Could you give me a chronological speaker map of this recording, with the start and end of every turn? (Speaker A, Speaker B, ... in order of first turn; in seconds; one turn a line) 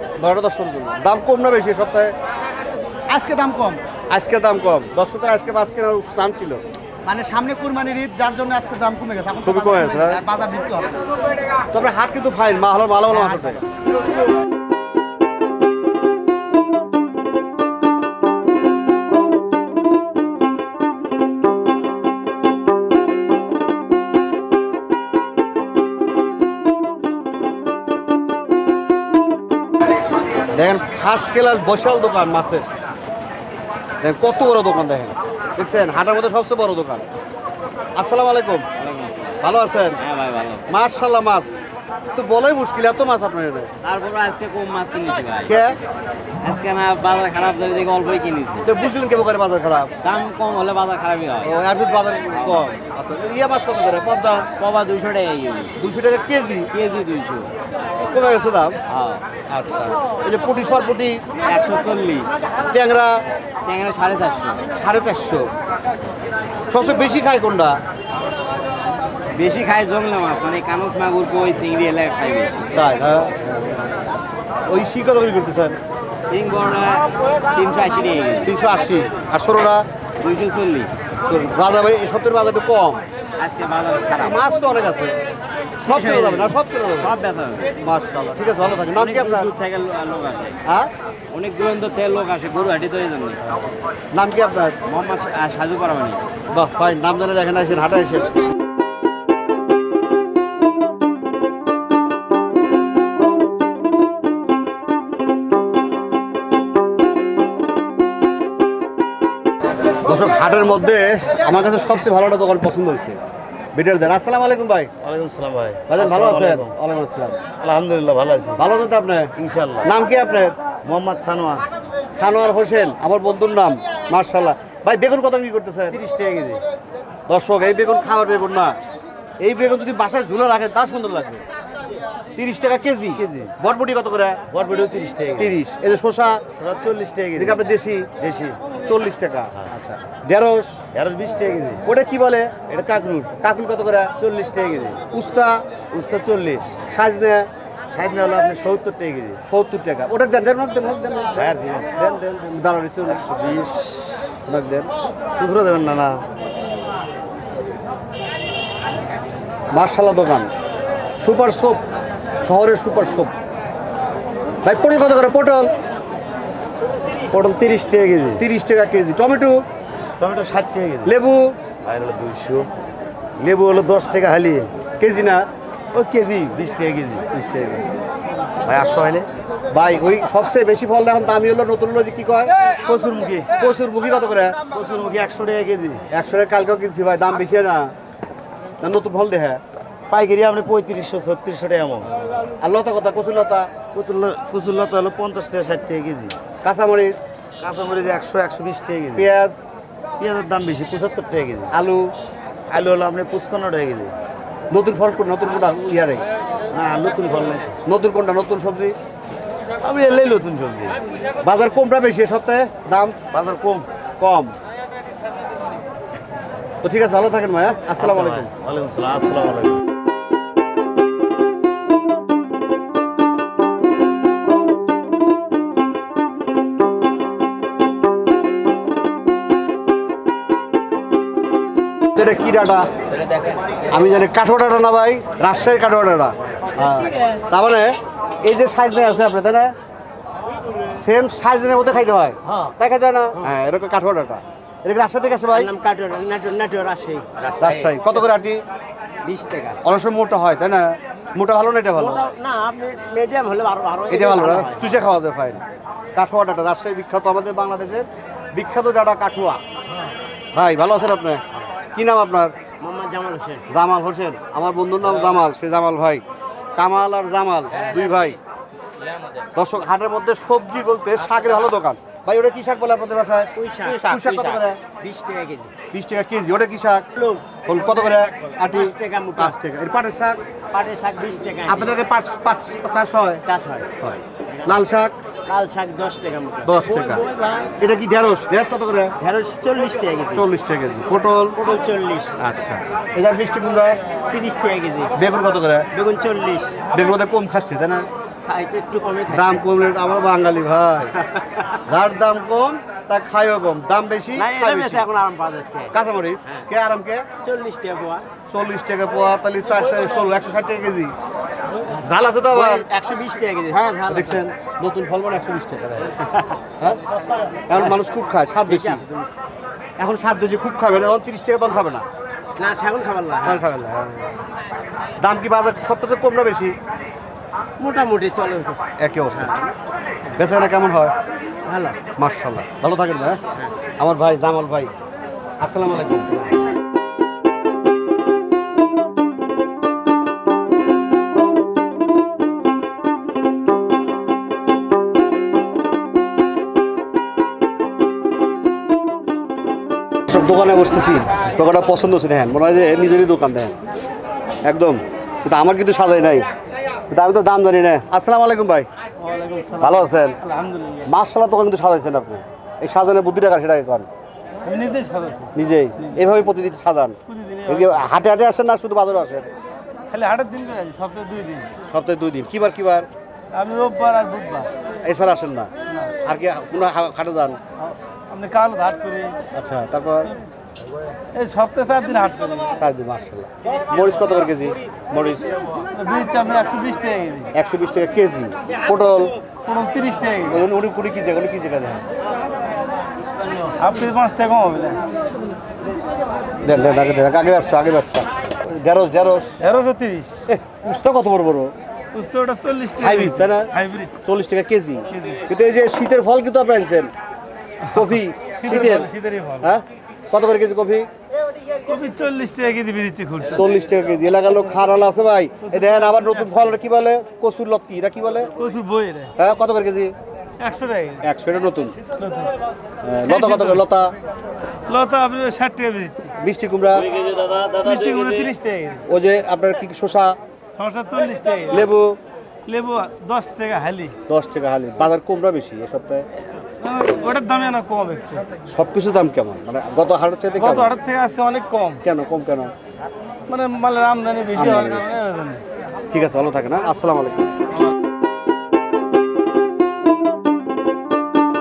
Speaker A: 0.2-2.1
Speaker B: 3.1-3.8
Speaker A: 4.1-6.6
Speaker B: 7.1-11.0
Speaker A: 9.4-10.2
Speaker A: 11.7-13.6
Speaker B: 13.1-13.6
Speaker A: 30.5-32.6
Speaker A: 34.0-37.0
Speaker A: 38.0-38.6
Speaker C: 38.8-39.4
Speaker A: 39.4-40.0
Speaker C: 40.0-40.6
Speaker A: 40.7-41.5
Speaker A: 42.1-43.7
Speaker C: 43.8-45.8
Speaker A: 45.5-45.8
Speaker C: 46.4-48.7
Speaker A: 48.6-49.9
Speaker C: 50.0-51.6
Speaker A: 51.4-54.5
Speaker C: 52.3-52.6
Speaker C: 54.6-55.8
Speaker A: 55.8-56.7
Speaker C: 56.7-57.5
Speaker A: 58.0-58.8
Speaker C: 58.9-59.2
Speaker A: 59.5-61.2
Speaker C: 61.5-62.3
Speaker A: 62.7-63.2
Speaker C: 63.7-64.6
Speaker A: 64.8-65.5
Speaker A: 66.7-67.8
Speaker C: 69.4-72.7
Speaker A: 72.8-73.9
Speaker A: 74.7-75.8
Speaker C: 76.3-78.5
Speaker A: 78.5-79.8
Speaker C: 80.2-80.9
Speaker A: 81.3-83.0
Speaker C: 83.4-84.4
Speaker A: 84.2-85.2
Speaker A: 85.8-87.1
Speaker C: 85.9-87.7
Speaker A: 87.8-89.5
Speaker C: 89.0-90.6
Speaker C: 91.3-93.4
Speaker A: 94.1-94.8
Speaker C: 94.9-96.2
Speaker A: 96.5-98.3
Speaker A: 110.0-113.2
Speaker A: 113.7-114.9
Speaker D: 115.0-116.7
Speaker A: 115.9-117.4
Speaker D: 117.6-118.6
Speaker A: 118.6-119.3
Speaker D: 119.4-119.9
Speaker A: 119.8-120.5
Speaker D: 120.8-121.6
Speaker A: 122.1-126.0
Speaker D: 125.9-126.6
Speaker A: 127.3-128.8
Speaker A: 129.4-131.4
Speaker A: 132.4-134.4
Speaker D: 133.2-133.5
Speaker D: 134.5-135.6
Speaker A: 135.4-136.4
Speaker D: 136.6-137.6
Speaker A: 137.4-138.1
Speaker D: 138.2-138.6
Speaker A: 138.8-140.8
Speaker D: 140.9-141.8
Speaker A: 141.8-142.6
Speaker D: 142.7-143.3
Speaker A: 143.4-144.1
Speaker D: 144.2-145.0
Speaker A: 145.1-145.6
Speaker D: 145.9-146.8
Speaker A: 146.9-147.5
Speaker D: 147.9-149.4
Speaker A: 149.5-153.3
Speaker D: 151.4-151.9
Speaker D: 153.1-154.3
Speaker A: 154.5-154.9
Speaker D: 155.4-156.2
Speaker A: 159.7-160.5
Speaker A: 161.2-161.8
Speaker A: 162.4-163.3
Speaker A: 164.6-165.7
Speaker D: 167.3-168.4
Speaker A: 168.4-169.6
Speaker D: 170.2-171.1
Speaker A: 171.1-171.6
Speaker D: 171.8-172.7
Speaker D: 173.4-174.7
Speaker A: 175.0-175.4
Speaker D: 175.9-177.2
Speaker A: 177.3-177.9
Speaker D: 178.7-179.3
Speaker A: 179.7-182.5
Speaker D: 182.8-183.5
Speaker A: 183.6-184.6
Speaker D: 184.7-186.0
Speaker A: 186.1-187.9
Speaker A: 188.8-189.6
Speaker D: 190.1-192.2
Speaker A: 192.6-193.7
Speaker D: 193.9-196.3
Speaker A: 196.6-197.2
Speaker D: 197.6-199.3
Speaker A: 199.2-199.6
Speaker D: 200.2-201.7
Speaker A: 201.7-202.1
Speaker D: 202.7-204.1
Speaker A: 204.7-206.2
Speaker D: 206.7-207.8
Speaker A: 207.9-209.0
Speaker D: 209.8-211.0
Speaker A: 211.4-213.2
Speaker D: 213.3-213.9
Speaker A: 214.2-214.5
Speaker A: 216.8-218.5
Speaker D: 218.0-219.8
Speaker A: 232.1-232.9
Speaker A: 233.9-239.7
Speaker A: 240.9-245.7
Speaker C: 242.5-242.7
Speaker C: 245.5-248.1
Speaker A: 247.6-248.6
Speaker C: 249.2-249.8
Speaker A: 249.8-252.3
Speaker C: 252.0-255.0
Speaker A: 254.1-255.6
Speaker A: 256.1-259.6
Speaker A: 260.5-261.4
Speaker A: 261.9-262.5
Speaker C: 262.8-263.6
Speaker A: 263.7-266.2
Speaker C: 265.1-265.4
Speaker A: 266.8-268.4
Speaker C: 267.8-268.2
Speaker C: 269.1-269.4
Speaker A: 269.6-274.8
Speaker C: 273.6-275.7
Speaker A: 275.9-277.1
Speaker C: 277.2-277.4
Speaker A: 277.6-280.4
Speaker C: 278.7-279.6
Speaker C: 280.7-282.0
Speaker A: 281.7-283.4
Speaker C: 283.4-283.9
Speaker A: 284.0-285.2
Speaker C: 285.5-287.7
Speaker A: 286.6-287.3
Speaker A: 287.8-289.1
Speaker C: 289.2-290.4
Speaker A: 290.3-291.6
Speaker C: 291.6-292.4
Speaker A: 292.4-294.0
Speaker C: 294.3-295.1
Speaker A: 295.2-295.9
Speaker C: 295.9-296.8
Speaker A: 296.9-298.1
Speaker C: 298.5-299.5
Speaker A: 299.3-301.2
Speaker C: 301.3-301.7
Speaker A: 301.9-305.1
Speaker C: 304.4-305.9
Speaker A: 305.9-307.2
Speaker C: 307.4-308.2
Speaker A: 308.5-311.1
Speaker A: 311.9-312.9
Speaker C: 312.5-314.4
Speaker A: 314.1-316.1
Speaker A: 317.7-319.0
Speaker C: 318.7-319.3
Speaker A: 320.0-322.1
Speaker C: 322.6-323.6
Speaker A: 323.4-324.3
Speaker A: 325.2-326.8
Speaker C: 327.8-328.8
Speaker A: 329.0-329.6
Speaker C: 329.3-329.7
Speaker A: 330.4-331.1
Speaker C: 331.7-332.0
Speaker A: 332.2-333.4
Speaker A: 334.0-334.9
Speaker A: 335.6-336.4
Speaker A: 350.3-353.8
Speaker A: 354.6-356.5
Speaker A: 357.1-358.9
Speaker E: 359.2-361.1
Speaker A: 359.8-360.4
Speaker A: 361.1-364.1
Speaker E: 364.6-366.2
Speaker A: 365.6-369.5
Speaker E: 367.3-368.1
Speaker E: 370.1-371.7
Speaker A: 371.9-373.1
Speaker E: 373.5-374.7
Speaker A: 375.1-375.7
Speaker E: 375.9-376.1
Speaker A: 376.2-377.6
Speaker E: 377.8-379.4
Speaker A: 379.5-380.3
Speaker E: 381.3-382.7
Speaker A: 382.8-385.6
Speaker E: 385.9-387.5
Speaker A: 387.5-389.4
Speaker E: 389.6-390.6
Speaker A: 390.5-392.0
Speaker E: 393.8-395.0
Speaker A: 396.6-399.5
Speaker E: 399.6-400.5
Speaker A: 400.5-401.7
Speaker E: 402.1-404.1
Speaker A: 403.0-407.1
Speaker E: 405.1-405.4
Speaker E: 407.9-409.8
Speaker A: 407.9-409.1
Speaker A: 409.6-411.1
Speaker E: 411.9-413.6
Speaker A: 413.5-418.5
Speaker E: 415.6-416.8
Speaker E: 418.6-419.3
Speaker A: 419.4-420.1
Speaker E: 420.6-421.2
Speaker A: 421.2-422.0
Speaker E: 422.1-422.5
Speaker A: 423.0-424.1
Speaker E: 423.2-423.8
Speaker E: 424.9-426.2
Speaker A: 426.4-427.1
Speaker D: 427.2-428.2
Speaker E: 427.8-429.0
Speaker A: 429.1-430.4
Speaker E: 430.8-431.9
Speaker A: 431.7-432.2
Speaker E: 432.7-434.1
Speaker A: 434.3-436.3
Speaker E: 436.8-438.4
Speaker A: 438.7-440.9
Speaker E: 440.6-442.0
Speaker A: 442.0-442.7
Speaker E: 443.5-445.6
Speaker A: 444.6-445.1
Speaker A: 446.1-447.5